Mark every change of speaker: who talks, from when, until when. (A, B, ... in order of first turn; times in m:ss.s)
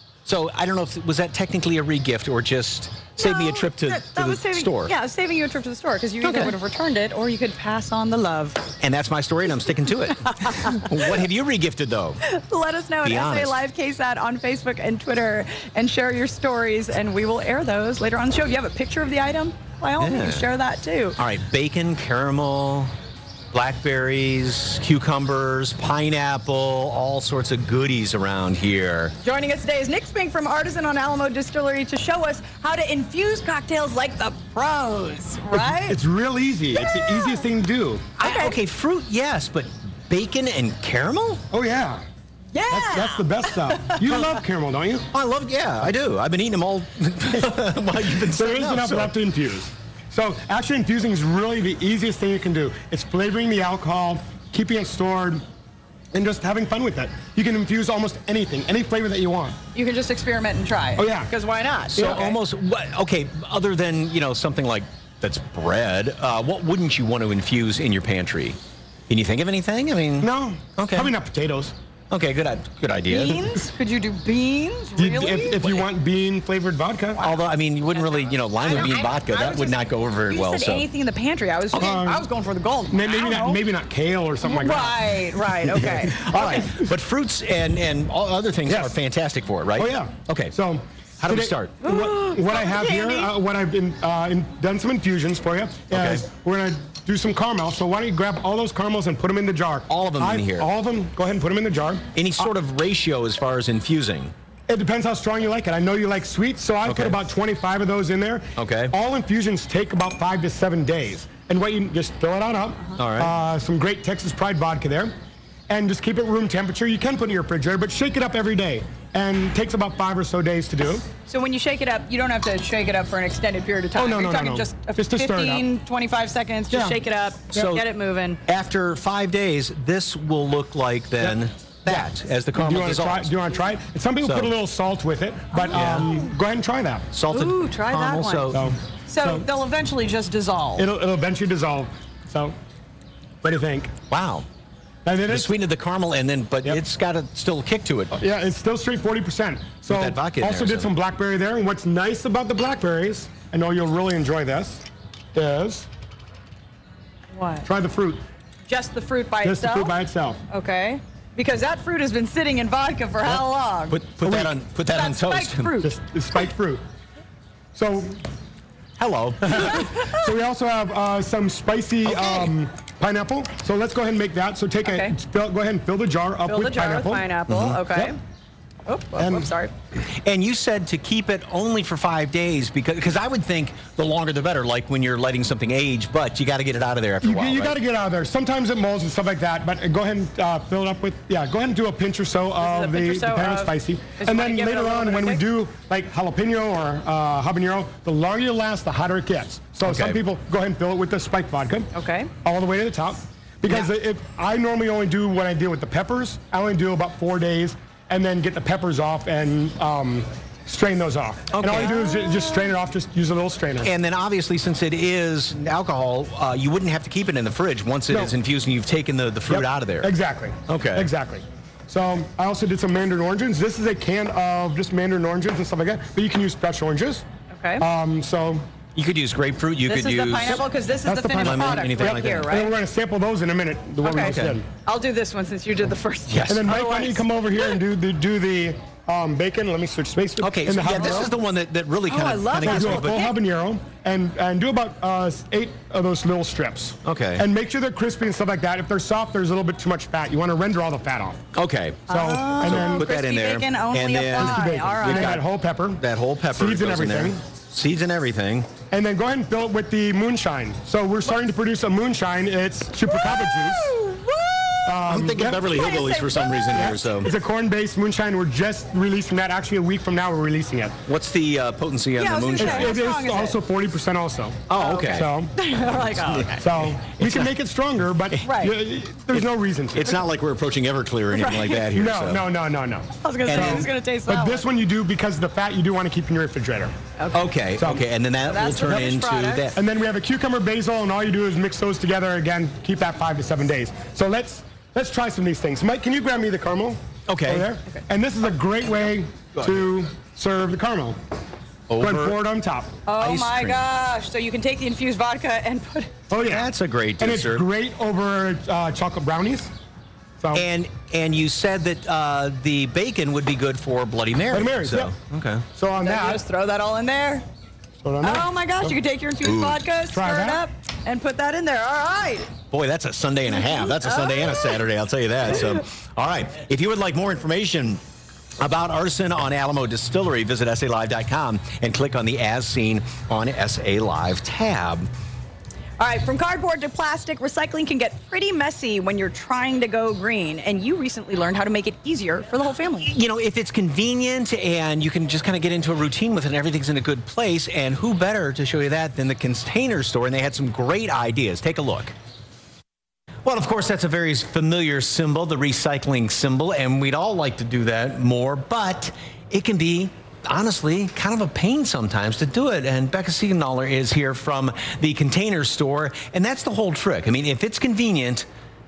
0:00.2-0:04.9 A
0:03.2-0:08.7 B
0:06.2-0:06.5 A
0:08.8-0:12.2 A
0:10.4-0:11.1 B
0:12.3-0:21.2 B
0:13.0-0:13.6 A
0:20.0-0:20.4 A
0:21.2-0:22.9 A
0:23.5-0:29.1 A
0:29.2-0:36.0 B
0:35.5-0:38.1 C
0:36.7-0:37.4 B
0:38.2-0:38.6 B
0:38.2-0:41.4 A
0:41.5-0:42.0 C
0:42.5-0:44.4 B
0:42.7-0:45.0 C
0:45.1-0:49.1 A
0:48.3-0:55.4 C
0:56.1-0:59.6 C
0:59.7-1:02.2 B
1:01.0-1:01.3 C
1:01.9-1:02.4 C
1:01.9-1:11.1 A
1:10.2-1:11.7 C
1:12.1-1:13.4 A
1:12.9-1:15.9 B
1:15.0-1:17.2 C
1:17.2-1:20.8 A
1:18.6-1:23.6 B
1:21.7-1:22.3 C
1:22.9-1:25.0 C
1:24.4-1:26.6 B
1:25.6-1:30.5 A
1:26.3-1:26.8 C
1:29.8-1:42.0 C
1:31.2-1:31.8 A
1:31.8-1:33.3 B
1:35.9-1:36.2 A
1:39.9-1:40.7 A
1:42.1-1:44.3 A
1:44.7-1:55.1 C
1:46.8-1:47.2 A
1:48.6-1:48.9 A
1:53.0-1:53.3 A
1:55.7-2:01.1 C
2:01.2-2:08.4 B
2:03.9-2:05.7 C
2:06.7-2:07.0 C
2:07.5-2:07.9 A
2:08.4-2:13.3 A
2:11.9-2:17.1 C
2:14.2-2:14.5 A
2:15.5-2:16.2 B
2:15.7-2:16.1 A
2:17.1-2:18.6 A
2:17.3-2:20.9 B
2:18.5-2:19.5 C
2:20.8-2:22.5 C
2:23.4-2:23.9 C
2:24.1-2:24.5 A
2:25.0-2:25.5 C
2:25.3-2:28.2 A
2:28.2-2:35.9 C
2:29.9-2:30.9 A
2:37.3-2:37.7 B
2:37.6-2:38.2 C
2:38.7-2:40.0 B
2:39.4-2:40.4 C
2:40.5-2:44.1 B
2:43.2-2:45.7 A
2:44.2-2:44.5 C
2:44.8-2:46.4 B
2:45.8-2:46.8 C
2:47.7-2:48.2 C
2:49.0-2:49.8 A
2:49.5-2:57.3 C
2:49.7-2:50.2 B
2:52.0-2:52.5 A
2:54.8-2:55.1 B
2:56.4-2:58.2 B
2:57.5-2:57.8 A
2:58.8-2:59.7 B
2:59.2-2:59.5 C
3:00.2-3:07.8 A
3:07.2-3:21.9 C
3:12.6-3:15.4 B
3:19.8-3:20.2 A
3:21.9-3:22.3 B
3:22.4-3:33.9 C
3:31.5-3:32.0 A
3:31.8-3:32.7 B
3:33.8-3:40.1 A
3:39.5-3:47.2 C
3:40.7-3:41.1 A
3:47.5-3:47.8 B
3:47.8-3:48.6 C
3:48.9-3:50.6 A
3:49.8-3:52.8 B
3:51.0-3:54.6 C
3:51.4-3:52.6 A
3:54.0-3:57.8 B
3:54.1-3:54.6 A
3:56.3-3:56.8 A
3:56.5-4:01.3 C
4:00.4-4:03.3 A
4:02.1-4:03.4 B
4:02.6-4:11.4 C
4:07.0-4:07.5 A
4:11.5-4:15.4 A
4:12.1-4:15.4 B
4:12.1-4:13.1 C
4:14.3-4:16.0 C
4:16.0-4:18.7 A
4:16.5-4:17.4 C
4:18.9-4:24.0 C
4:23.0-4:27.3 B
4:24.8-4:25.8 C
4:25.0-4:27.3 A
4:26.7-4:31.0 C
4:31.1-4:33.0 A
4:32.2-4:33.6 B
4:32.6-4:35.5 C
4:34.7-4:35.3 A
4:34.7-4:36.7 B
4:35.9-4:37.5 A
4:36.6-4:40.1 C
4:38.4-4:38.8 B
4:39.3-4:42.4 A
4:41.3-4:41.8 B
4:41.9-4:46.9 C
4:43.2-4:44.7 B
4:43.4-4:43.9 A
4:47.2-4:47.4 B
4:47.3-4:49.8 A
4:47.8-4:48.0 C
4:48.5-4:49.7 B
4:49.7-5:01.2 C
4:57.3-4:57.7 A
4:59.5-5:00.0 A
5:01.9-5:02.4 A
5:02.0-5:02.9 C
5:03.0-5:06.2 B
5:03.2-5:03.8 A
5:06.3-5:09.7 C
5:06.4-5:07.7 A
5:10.4-5:10.6 C
5:10.5-5:15.6 A
5:14.5-5:15.1 C
5:15.7-5:16.4 C
5:16.0-5:17.4 B
5:18.0-5:19.0 C
5:18.2-5:22.5 B
5:19.4-5:19.8 A
5:20.1-5:20.6 C
5:22.7-5:28.0 A
5:23.5-5:24.8 B
5:28.6-5:35.1 A
5:36.0-5:43.1 B
5:43.1-5:52.1 A
5:53.4-6:08.5 A